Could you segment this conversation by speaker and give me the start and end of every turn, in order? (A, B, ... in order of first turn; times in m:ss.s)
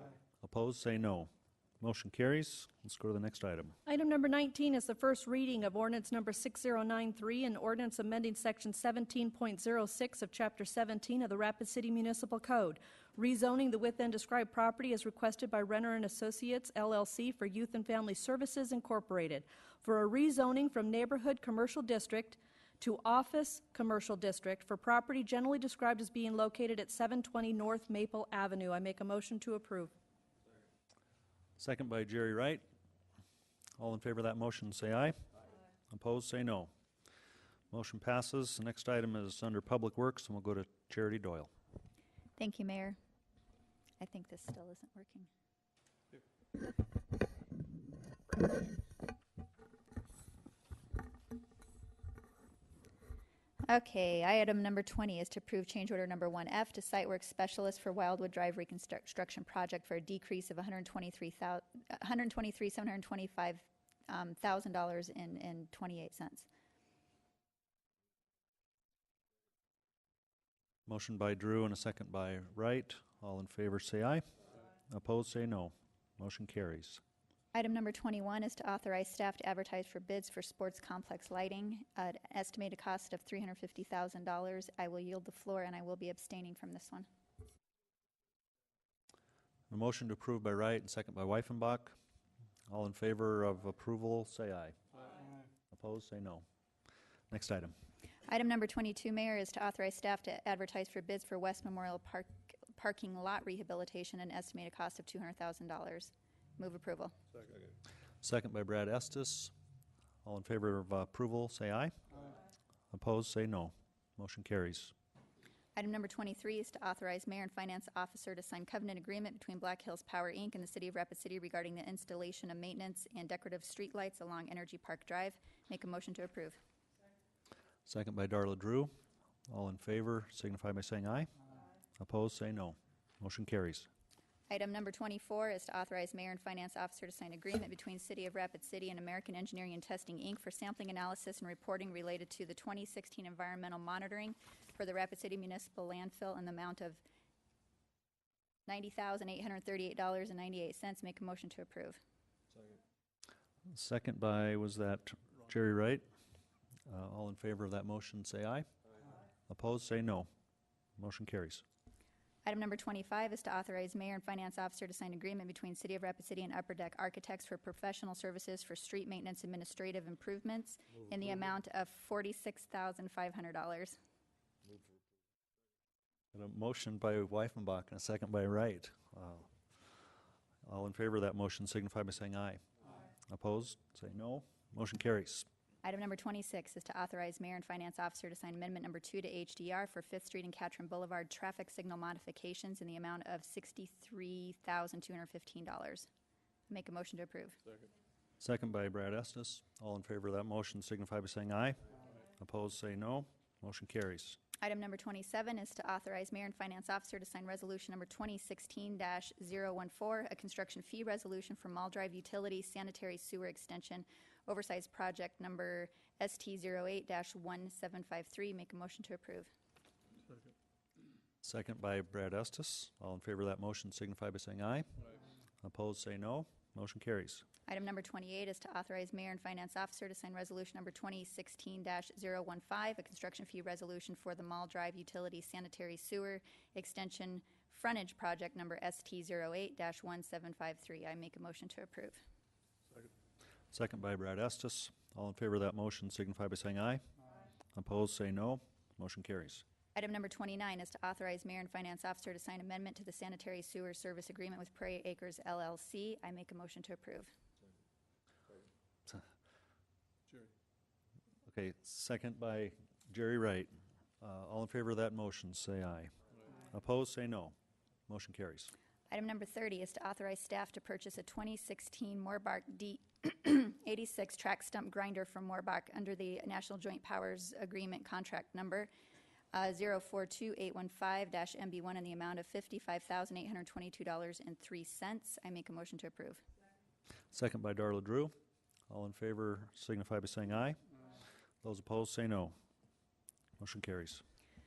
0:00.4-0:01.3 A
0:01.8-0:03.8 A
0:03.9-0:29.9 B
0:31.6-0:32.6 A
0:33.8-0:35.2 A
0:35.9-0:36.7 A
0:37.7-0:41.5 A
0:42.4-0:43.0 C
0:44.0-0:45.3 C
0:53.7-1:06.5 C
1:10.9-1:14.3 A
1:14.9-1:17.0 A
1:17.5-1:27.1 C
1:29.7-1:32.0 A
1:32.7-1:34.8 A
1:35.7-1:36.4 A
1:37.3-1:37.7 A
1:38.3-1:47.1 C
1:48.2-1:49.5 A
1:50.2-1:51.9 A
1:52.9-1:54.9 A
1:55.8-2:06.6 C
2:07.9-2:08.9 A
2:09.5-2:11.3 A
2:12.0-2:13.9 A
2:14.5-2:27.0 C
2:28.7-2:32.0 C
2:33.7-2:36.0 A
2:36.9-2:38.7 A
2:39.5-2:40.3 A
2:41.0-2:41.6 A
2:42.4-2:54.0 C
2:56.3-2:59.5 A
3:00.6-3:02.6 A
3:03.2-3:05.5 A
3:05.8-3:16.1 C
3:16.7-3:17.6 C
3:18.4-3:21.8 A
3:22.4-3:24.4 A
3:24.6-3:39.5 C
3:41.4-3:44.9 A
3:45.6-3:47.4 A
3:47.7-4:02.2 C
4:03.7-4:07.0 A
4:07.7-4:09.6 A
4:10.0-4:17.3 C
4:21.5-4:27.6 A
4:28.1-4:28.7 A
4:29.1-4:38.9 C
4:39.5-4:46.4 C
4:47.3-4:48.3 A
4:48.9-4:50.8 A
4:51.6-4:52.5 A
4:53.6-4:54.2 A